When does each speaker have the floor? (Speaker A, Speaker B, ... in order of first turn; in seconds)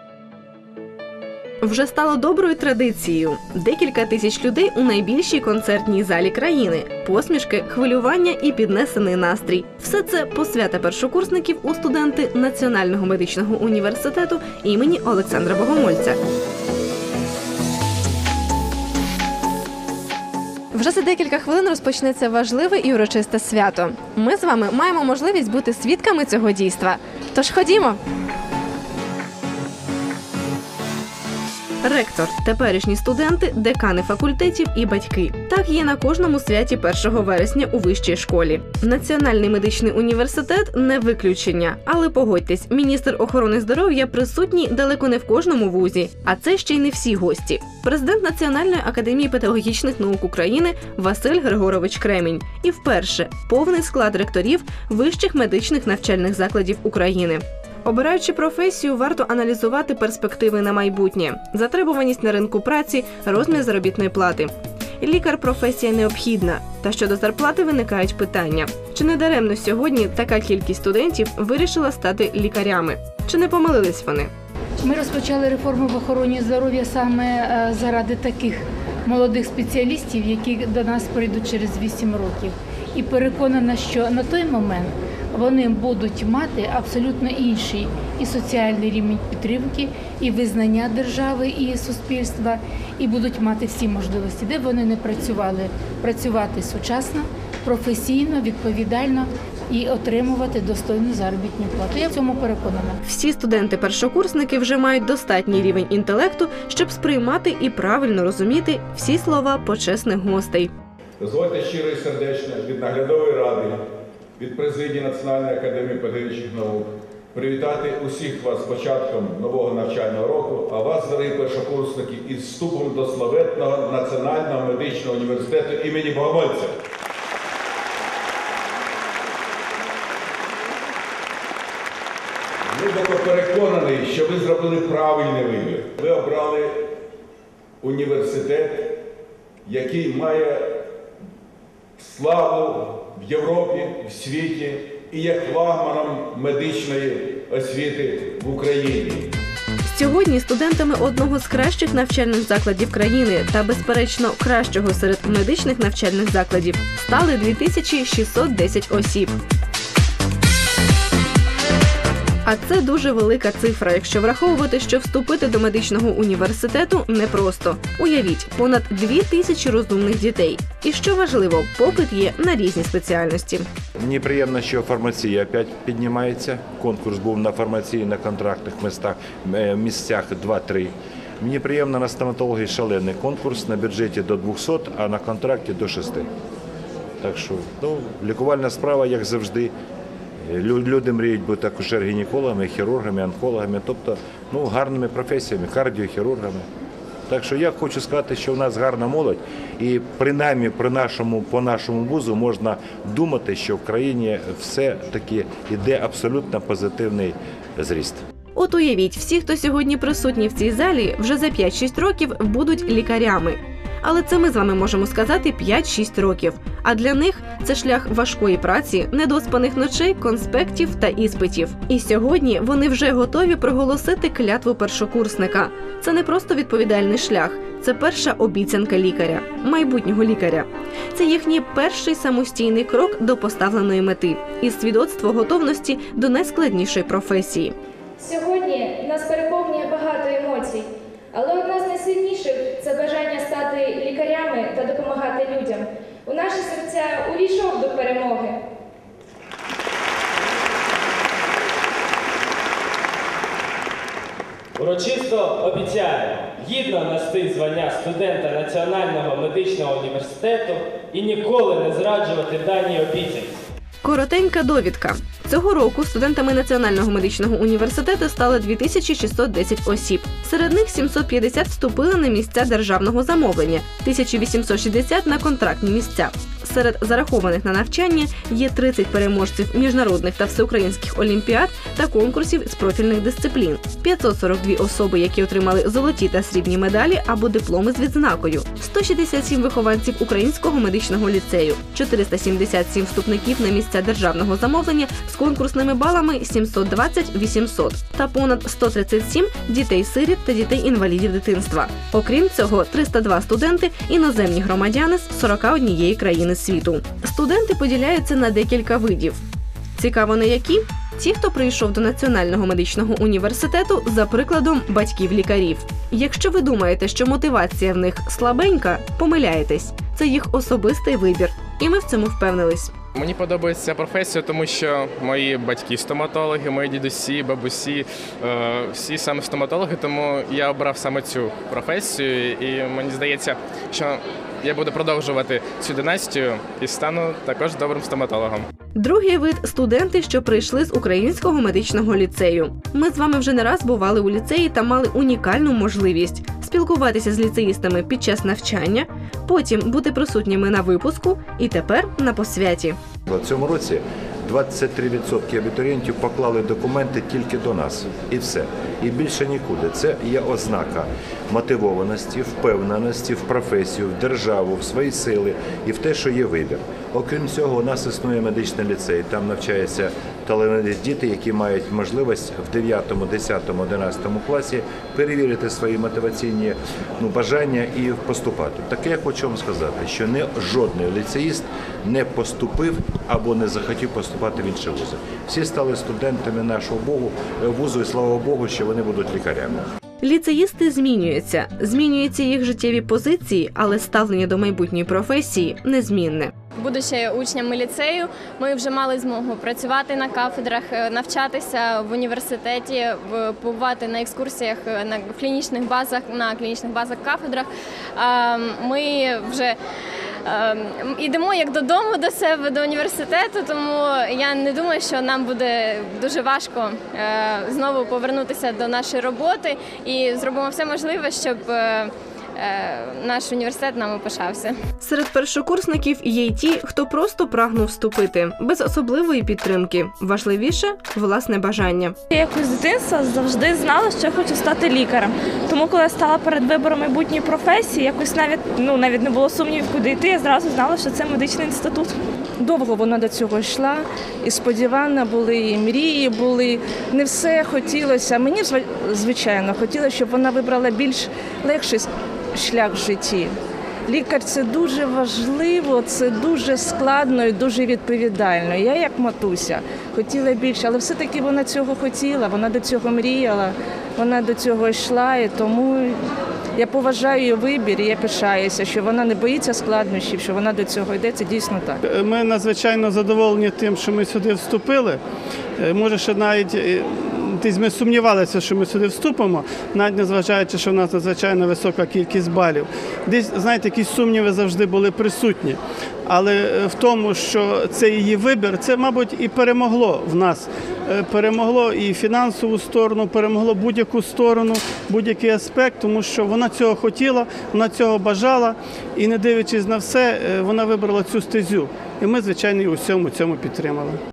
Speaker A: 1.6-16.2, 20.7-28.0, 31.8-74.3, 103.0-110.7, 149.8-159.4, 162.4-173.7, 208.6-237.8, 264.0-309.4, 309.9-322.9, 338.9-353.0, 390.2-396.5, 425.0-432.2
Speaker B: 74.8-103.0
Speaker C: 111.2-113.8, 114.4-126.8, 132.7-136.9, 137.8-139.0, 139.7-140.8, 142.0-149.3
Speaker D: 174.0-186.3, 187.2-189.7, 190.4-196.7, 197.3-208.2, 353.3-389.8
Speaker E: 238.2-248.6
Speaker F: 254.8-263.5
Speaker G: 323.1-338.7
Speaker H: 396.8-409.8, 410.4-424.8
Speaker I: 432.3-442.1
Speaker J: 442.6-453.5, 454.1-466.2, 466.8-472.0
Speaker K: 472.0-475.2, 475.8-504.2